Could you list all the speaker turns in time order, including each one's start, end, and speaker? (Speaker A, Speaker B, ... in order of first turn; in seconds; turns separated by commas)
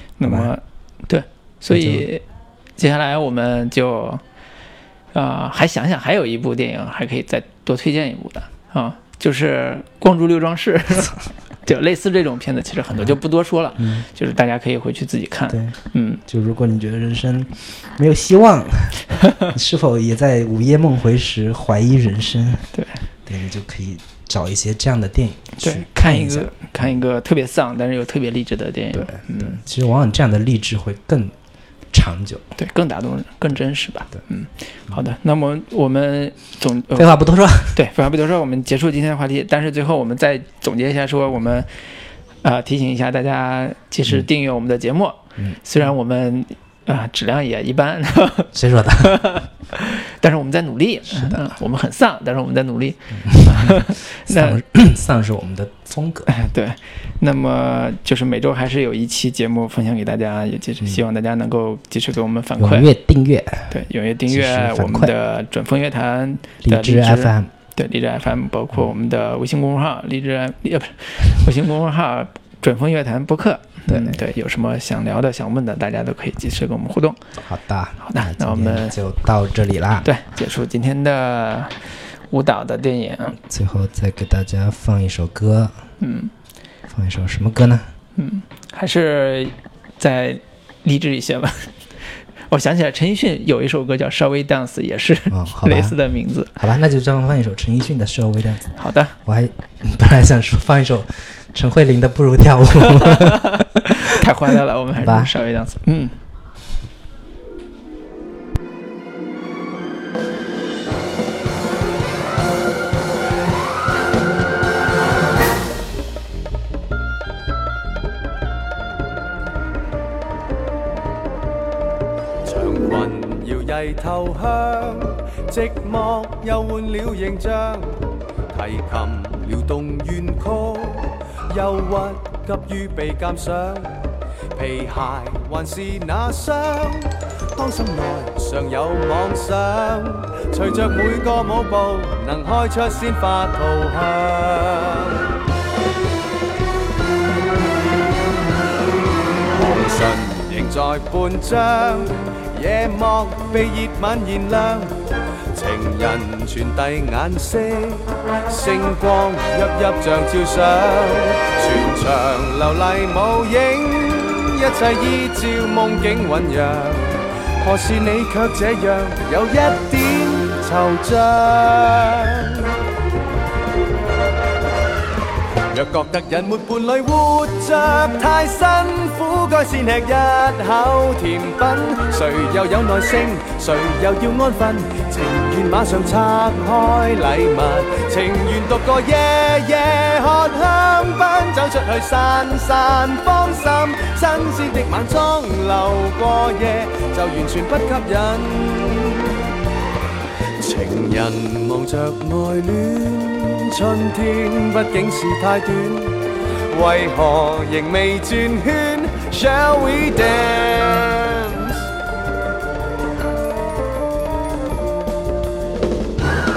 Speaker A: 0.2-2.2, Speaker B: 0.2-0.5, Speaker B: 1.7-2.1, Speaker A: 2.8-4.2, Speaker A: 5.1-16.2, Speaker B: 13.8-14.1, Speaker B: 15.5-15.8, Speaker B: 16.3-22.7, Speaker A: 22.7-23.0, Speaker B: 23.3-26.9, Speaker A: 25.6-29.6, Speaker B: 28.9-31.4, Speaker B: 31.9-32.5, Speaker A: 32.6-41.7, Speaker B: 37.0-37.8, Speaker A: 42.4-54.6, Speaker B: 48.5-49.2, Speaker B: 51.1-51.4, Speaker B: 53.2-56.3, Speaker A: 56.3-62.9, Speaker B: 62.6-63.8, Speaker A: 63.7-77.2, Speaker B: 64.3-65.1, Speaker B: 66.6-67.5, Speaker B: 73.9-74.2, Speaker B: 77.4-80.1, Speaker A: 78.0-79.0, Speaker A: 80.0-83.4, Speaker B: 83.4-85.9, Speaker A: 86.0-86.3, Speaker B: 86.9-87.9, Speaker A: 88.2-91.7, Speaker A: 92.5-96.5, Speaker B: 95.3-96.0, Speaker B: 96.5-103.6, Speaker A: 98.8-99.2, Speaker A: 103.0-106.2, Speaker B: 105.0-105.3, Speaker C: 122.5-128.0, Speaker C: 128.5-145.2, Speaker C: 149.5-154.9, Speaker C: 155.5-172.7, Speaker C: 175.7-199.5, Speaker C: 200.6-211.9